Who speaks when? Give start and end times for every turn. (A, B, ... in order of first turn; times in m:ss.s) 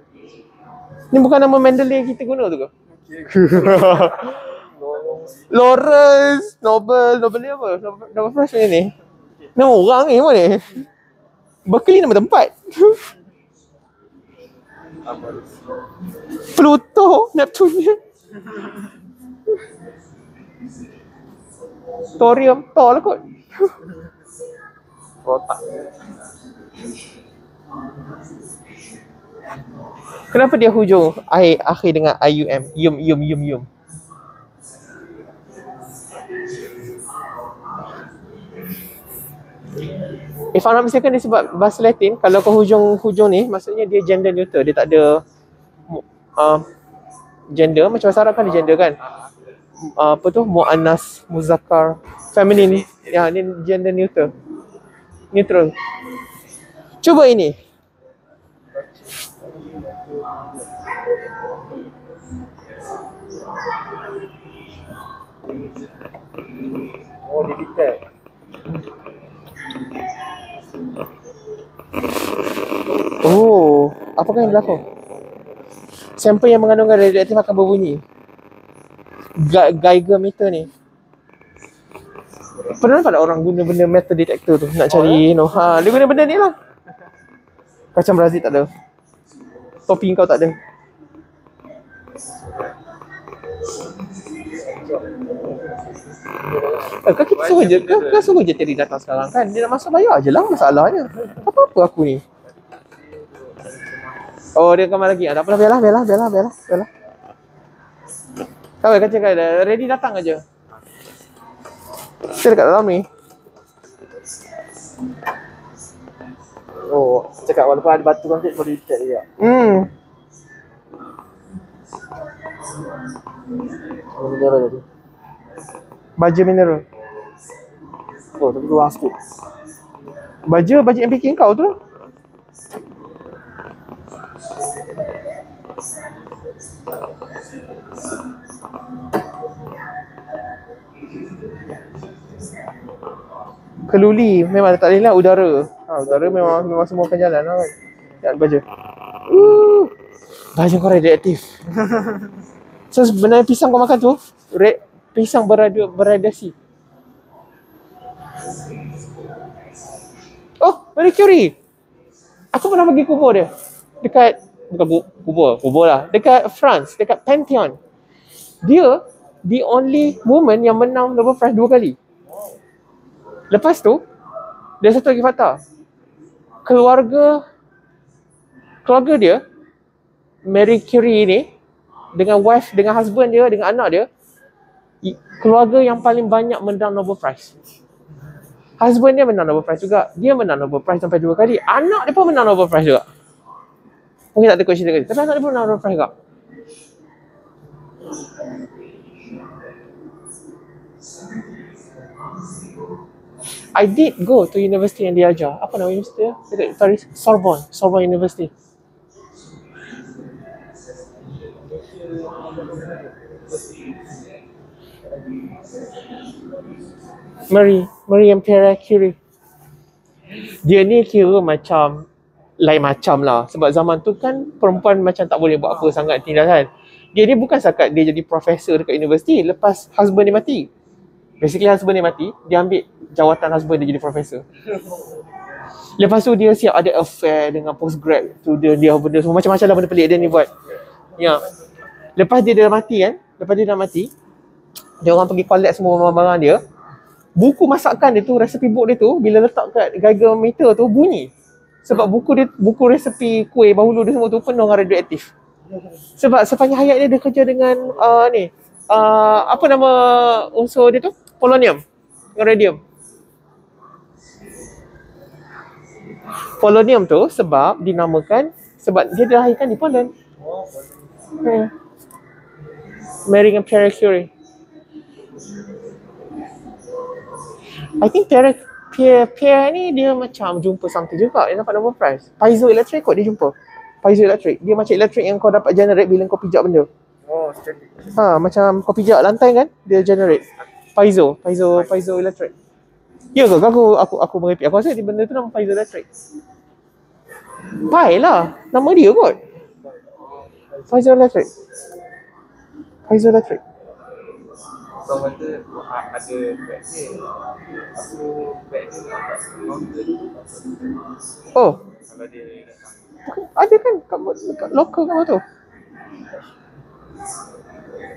0:01.1-0:02.7 A
0:03.0-0:05.3 B
0:03.0-0:05.5 C
0:03.5-0:04.1 A
0:05.5-0:08.9 A
0:09.5-0:10.8 A
0:11.6-0:13.0 A
0:15.0-0:15.5 C
0:16.5-0:18.0 A
0:22.2-0:23.2 A
0:25.2-0:25.6 C
0:30.3-0:33.7 A
0:40.5-0:45.2 A
0:45.9-0:46.6 A
0:47.5-0:49.0 A
0:49.0-0:49.3 C
0:49.8-0:54.3 A
0:52.5-0:53.1 C
0:55.3-0:55.7 A
0:57.0-0:57.6 A
1:07.2-1:08.0 B
1:13.2-1:14.8 A
1:16.2-1:18.0 A
1:19.4-1:20.7 A
1:22.8-1:26.6 A
1:27.9-1:28.7 A
1:29.9-1:30.6 A
1:36.4-1:36.9 B
1:37.0-1:42.2 A
1:37.3-1:38.3 C
1:42.4-1:44.3 C
1:44.5-1:46.9 A
1:48.8-1:50.4 A
1:52.3-1:53.0 A
1:56.9-1:59.3 B
1:59.4-1:59.9 A
2:04.1-2:04.8 B
2:06.2-2:06.8 A
2:08.4-2:09.2 B
2:10.5-2:11.8 A
2:23.9-2:28.6 A
2:25.9-2:26.6 B
2:29.3-2:29.9 A
2:30.5-2:31.4 A
2:32.9-2:36.5 A
2:40.6-2:41.5 A
2:42.5-2:43.5 A
2:44.0-2:47.8 A
2:48.6-2:52.0 A
2:53.5-2:54.0 A
2:54.8-2:55.6 A
2:56.6-2:57.4 A
2:58.8-2:59.4 A
3:00.4-3:01.5 A
3:02.1-3:04.1 A
3:05.0-3:07.5 A
3:08.8-3:13.0 A
3:14.3-3:16.1 A
3:23.7-3:28.5 A
3:32.3-3:32.9 B
3:37.5-3:39.2 A
3:40.6-3:42.0 A
3:42.6-3:50.7 A
3:51.4-3:54.4 A
3:56.0-4:00.5 A
4:01.2-4:01.4 A
4:02.2-4:04.1 A
4:05.0-4:06.6 A
4:07.4-4:11.3 A
4:11.8-4:15.3 A
4:16.2-4:21.8 A
4:22.3-4:22.8 A
4:26.6-4:30.1 A
4:30.4-4:31.0 B
4:31.4-4:31.7 A
4:33.2-4:34.3 A
4:38.0-4:46.9 A
4:47.2-4:48.1 B
4:48.1-4:50.4 A
4:51.0-4:52.5 A
4:53.3-4:56.1 A
4:57.8-4:59.4 A
5:00.9-5:01.5 A
5:03.1-5:03.6 A
5:05.0-5:07.2 C
5:07.9-5:10.5 C
5:11.5-5:11.8 A
5:12.1-5:12.9 C
5:13.3-5:15.4 A